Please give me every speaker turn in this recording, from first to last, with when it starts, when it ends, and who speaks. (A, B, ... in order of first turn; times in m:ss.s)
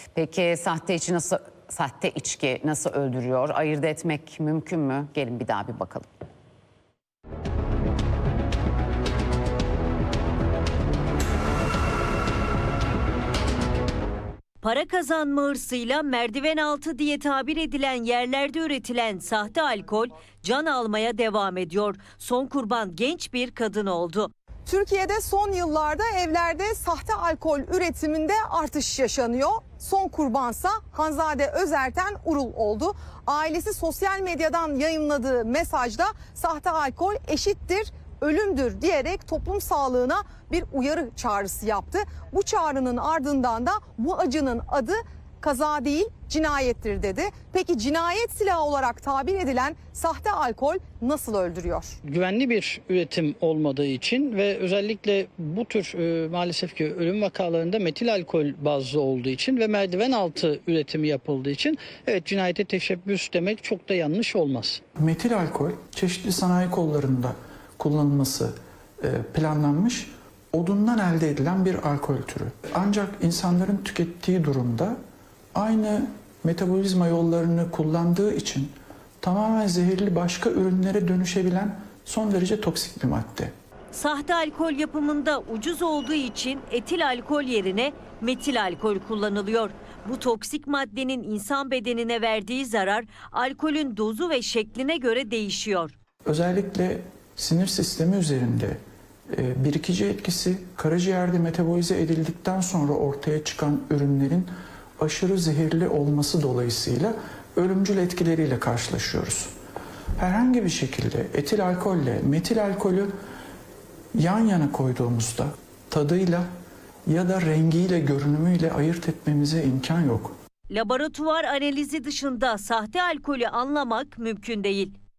0:00.1-0:06.1 A
0:14.6-0:24.3 B
0:24.7-0:52.0 C
0:52.0-1:04.8 D
1:05.0-1:15.0 E
1:15.5-1:23.5 E
1:23.9-1:35.9 B
1:36.3-1:49.5 E
1:50.2-1:53.1 E
1:54.1-1:56.5 E
1:57.1-2:00.3 E
2:00.7-2:04.9 B